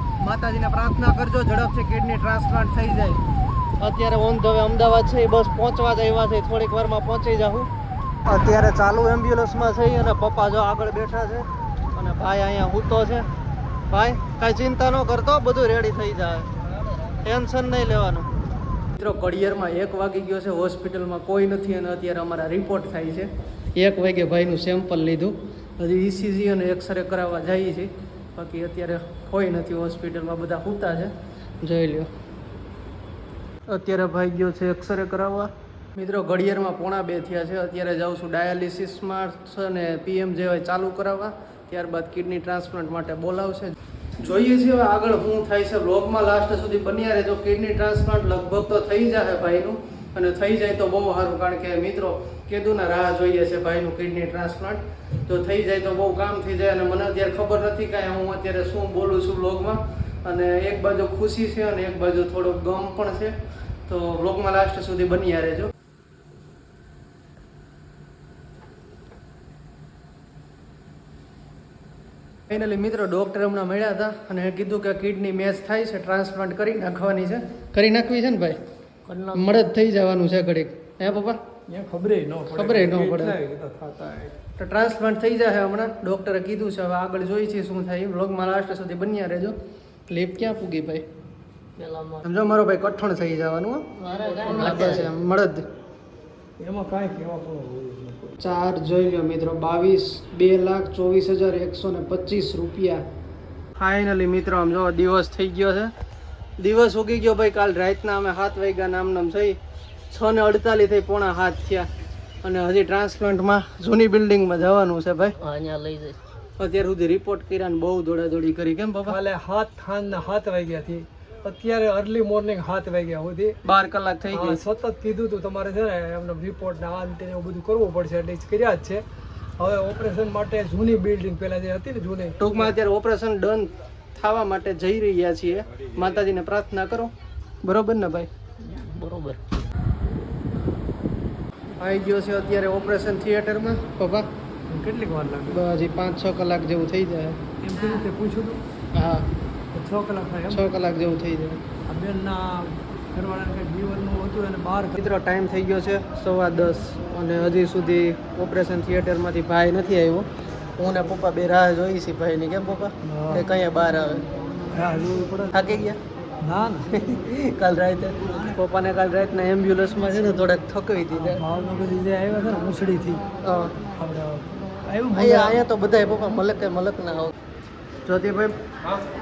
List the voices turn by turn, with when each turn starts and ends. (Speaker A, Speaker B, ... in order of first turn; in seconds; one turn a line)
Speaker A: 0.2-3.2
Speaker A: 3.8-7.7
Speaker A: 8.2-13.3
Speaker A: 13.9-16.5
Speaker A: 17.1-18.3
Speaker A: 18.9-32.1
Speaker A: 33.7-63.4
Speaker A: 63.9-65.7
Speaker A: 72.5-78.6
Speaker B: 79.0-79.5
Speaker A: 79.3-81.4
Speaker C: 81.7-84.4
Speaker A: 82.5-83.4
Speaker A: 84.6-89.6
Speaker A: 90.1-91.0
Speaker B: 91.8-92.3
Speaker A: 92.2-95.6
Speaker B: 94.0-95.1
Speaker C: 96.6-98.4
Speaker A: 98.4-103.0
Speaker A: 103.8-105.9
Speaker A: 106.6-109.6
Speaker A: 110.1-111.9
Speaker A: 112.4-115.4
Speaker B: 115.4-116.2
Speaker A: 116.6-119.2
Speaker C: 119.0-123.6
Speaker A: 123.6-124.6
Speaker C: 124.3-129.0
Speaker C: 129.6-132.7
Speaker A: 132.4-138.3
Speaker B: 138.6-139.4
Speaker A: 141.8-144.2
Speaker C: 144.7-145.6
Speaker A: 145.5-147.4
Speaker C: 147.6-148.6
Speaker A: 148.9-149.3
Speaker C: 149.7-150.7
Speaker A: 150.5-151.6
Speaker C: 151.9-155.0
Speaker A: 155.0-160.3
Speaker A: 160.8-164.2
Speaker C: 163.0-163.4
Speaker C: 164.7-165.5
Speaker A: 165.5-166.0
Speaker C: 166.4-167.1
Speaker A: 166.9-171.4
Speaker C: 171.1-173.3
Speaker A: 173.4-173.7
Speaker C: 173.9-175.6
Speaker A: 175.1-177.3
Speaker A: 178.1-178.6